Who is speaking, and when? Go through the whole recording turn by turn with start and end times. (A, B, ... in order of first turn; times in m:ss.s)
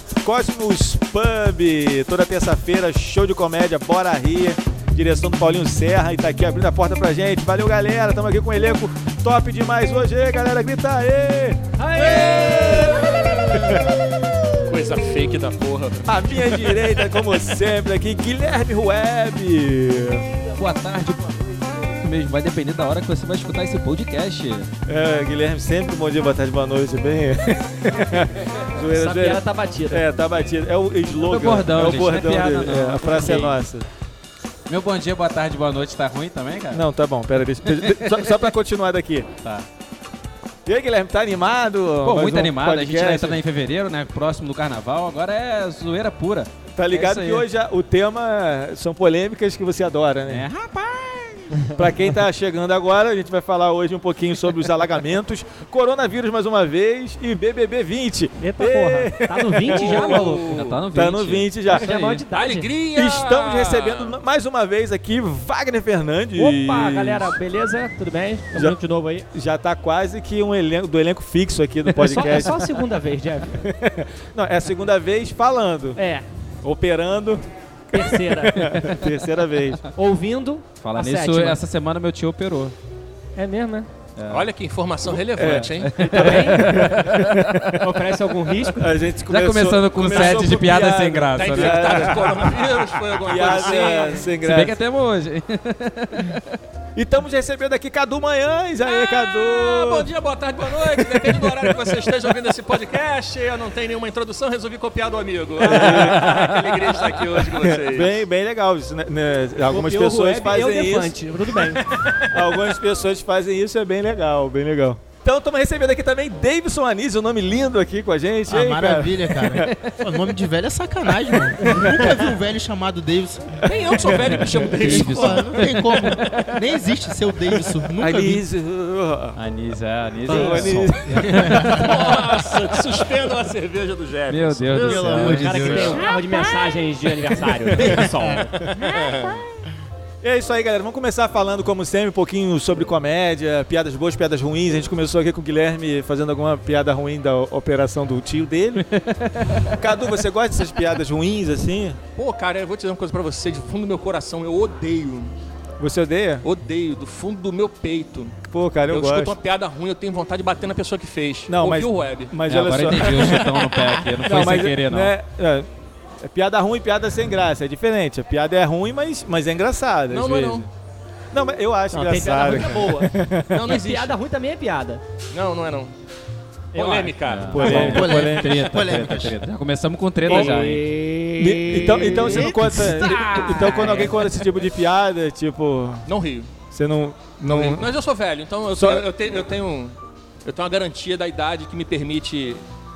0:00.2-0:11.6 A
0:11.8-0:13.0 B
0:12.0-0:13.7 C
0:12.1-0:13.8 A
0:14.6-0:16.4 C
0:16.1-0:20.2 A
0:20.6-0:24.7 D
0:24.9-0:33.8 A
0:28.9-0:30.0 B
0:31.2-0:33.6 D
0:33.2-0:33.5 B
0:34.7-0:36.8 D
0:36.7-0:39.3 A
0:37.6-0:38.3 D
0:40.6-0:43.4 A
0:42.0-0:47.4 D
0:46.7-0:50.5 A
0:50.3-0:51.7 D
0:51.8-1:01.9 A
0:58.4-1:00.5 B
0:59.7-1:00.8 C
1:00.5-1:02.2 D
1:01.7-1:02.7 B
1:02.3-1:04.2 C
1:02.9-1:07.4 A
1:06.4-1:09.2 B
1:09.3-1:12.8 A
1:11.9-1:13.6 B
1:13.6-1:16.0 A
1:15.9-1:16.2 B
1:16.6-1:19.8 A
1:17.9-1:18.6 B
1:20.0-1:21.6 B
1:20.8-1:22.7 D
1:23.4-1:23.9 B
1:24.2-1:24.5 D
1:24.3-1:26.1 C
1:25.1-1:27.8 A
1:25.5-1:27.7 D
1:26.1-1:26.9 B
1:27.8-1:28.9 B
1:28.7-1:34.8 A
1:29.3-1:32.2 D
1:31.3-1:34.3 C
1:33.7-1:34.1 B
1:34.4-1:36.6 D
1:36.9-1:40.1 A
1:38.9-1:48.2 C
1:40.6-1:42.3 A
1:45.6-1:46.4 A
1:45.9-1:46.5 D
1:47.4-1:59.6 A
1:49.7-1:52.3 B
1:58.5-2:08.4 E
1:59.6-2:00.0 D
2:01.6-2:02.3 A
2:03.6-2:05.7 C
2:04.7-2:06.6 D
2:08.0-2:09.4 A
2:09.3-2:11.9 D
2:10.2-2:11.9 A
2:10.3-2:10.6 B
2:11.6-2:16.0 C
2:14.3-2:15.9 D
2:14.7-2:16.0 E
2:15.1-2:18.5 B
2:18.8-2:19.4 C
2:20.2-2:28.8 A
2:28.9-2:29.7 D
2:29.7-2:32.0 A
2:32.2-2:35.3 C
2:35.8-2:36.4 A
2:36.4-2:38.4 C
2:38.5-2:39.3 A
2:38.9-2:42.3 C
2:41.5-2:43.5 A
2:42.5-2:45.1 D
2:44.2-2:45.7 A
2:46.2-2:50.7 A
2:50.1-2:50.6 C
2:51.3-2:53.5 A
2:51.9-2:53.1 B
2:53.5-2:54.1 C
2:53.6-2:55.0 B
2:55.3-2:55.9 C
2:56.7-2:57.6 C
2:56.7-2:57.1 B
2:57.2-3:00.8 D
2:57.5-2:58.7 A
2:57.6-2:59.4 E
3:00.2-3:04.2 B
3:00.3-3:00.7 C
3:01.4-3:06.0 A
3:02.3-3:03.1 E
3:06.0-3:06.5 C
3:06.7-3:07.9 A
3:07.5-3:12.6 C
3:08.7-3:09.0 A